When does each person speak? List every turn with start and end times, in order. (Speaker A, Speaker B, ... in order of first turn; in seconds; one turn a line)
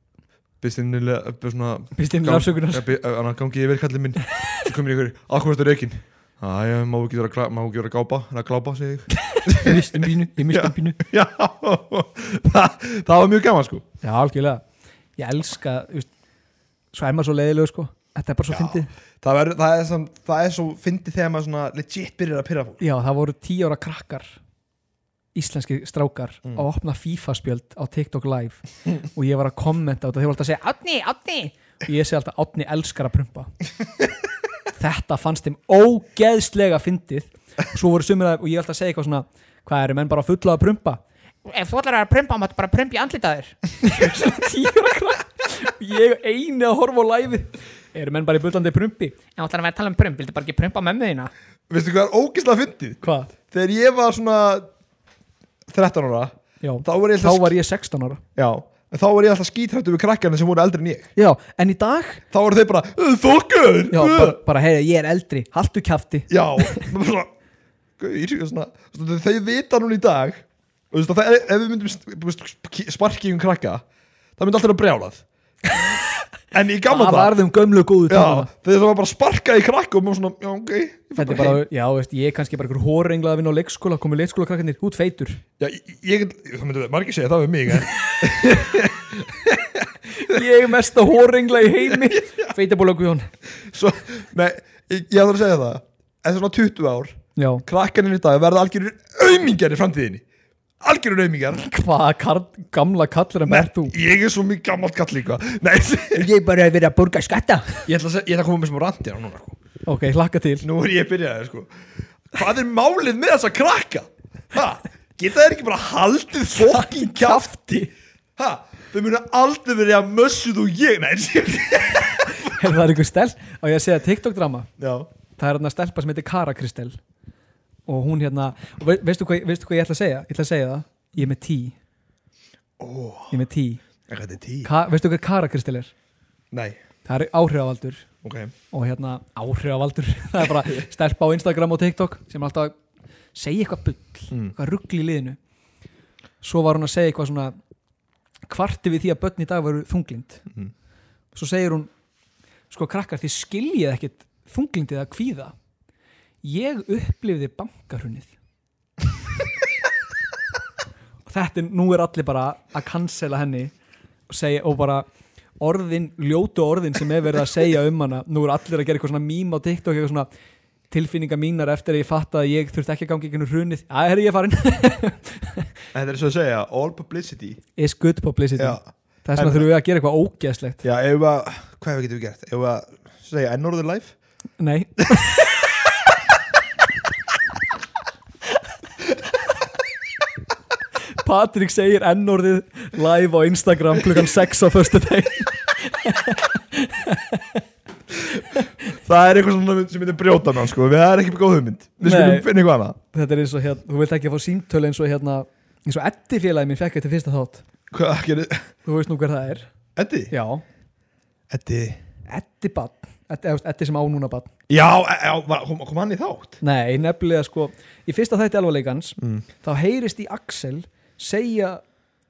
Speaker A: 0.6-13.8
Speaker B: 1.9-2.9
Speaker B: 9.2-11.0
Speaker B: 14.0-14.6
Speaker B: 15.2-16.1
Speaker B: 16.9-18.9
Speaker A: 18.5-22.8
Speaker B: 22.8-24.4
Speaker B: 25.3-33.5
Speaker B: 34.8-41.0
Speaker C: 41.4-43.6
Speaker B: 43.8-51.3
Speaker C: 49.4-50.6
Speaker A: 51.7-54.7
Speaker B: 53.0-53.3
Speaker A: 55.7-57.6
Speaker B: 56.6-58.2
Speaker A: 58.4-61.1
Speaker B: 61.1-62.2
Speaker A: 62.3-64.4
Speaker B: 63.9-66.8
Speaker A: 66.3-67.3
Speaker A: 68.0-73.8
Speaker A: 74.4-75.2
Speaker A: 76.5-77.4
Speaker B: 76.8-78.5
Speaker A: 78.1-81.6
Speaker B: 81.2-85.4
Speaker A: 85.6-90.4
Speaker B: 90.1-93.3
Speaker A: 92.0-92.5
Speaker A: 93.6-100.2
Speaker B: 97.3-97.6
Speaker A: 100.8-101.7
Speaker B: 101.5-103.9
Speaker A: 103.5-106.3
Speaker B: 106.2-107.8
Speaker A: 107.8-109.6
Speaker B: 109.8-110.7
Speaker A: 110.6-111.7
Speaker A: 112.2-122.5
Speaker B: 116.6-117.9
Speaker B: 122.3-124.7
Speaker A: 124.8-125.1
Speaker B: 125.4-127.0
Speaker B: 127.9-131.7
Speaker A: 132.8-133.4
Speaker B: 133.3-133.8
Speaker A: 134.1-134.7
Speaker B: 134.6-135.9
Speaker A: 136.5-136.8
Speaker B: 137.0-138.1
Speaker A: 138.2-138.5
Speaker B: 138.7-142.8
Speaker B: 143.3-145.4
Speaker B: 146.4-147.5
Speaker B: 148.5-150.4
Speaker B: 151.3-151.9
Speaker B: 152.7-155.5
Speaker B: 156.4-158.3
Speaker B: 161.3-163.7
Speaker B: 164.3-165.1
Speaker B: 165.6-170.3
Speaker B: 170.9-175.7
Speaker A: 175.9-177.6
Speaker B: 177.8-180.8
Speaker A: 178.6-178.8
Speaker A: 179.3-179.7
Speaker A: 180.8-184.2
Speaker B: 184.6-185.6
Speaker B: 191.2-197.6
Speaker A: 198.1-203.0
Speaker B: 202.0-202.5
Speaker B: 203.1-207.6
Speaker A: 207.9-208.7
Speaker B: 208.8-209.7
Speaker A: 209.9-210.3
Speaker B: 210.3-210.6
Speaker A: 211.5-212.0
Speaker B: 212.3-214.5
Speaker A: 214.7-216.6
Speaker B: 216.6-221.8
Speaker A: 219.2-219.4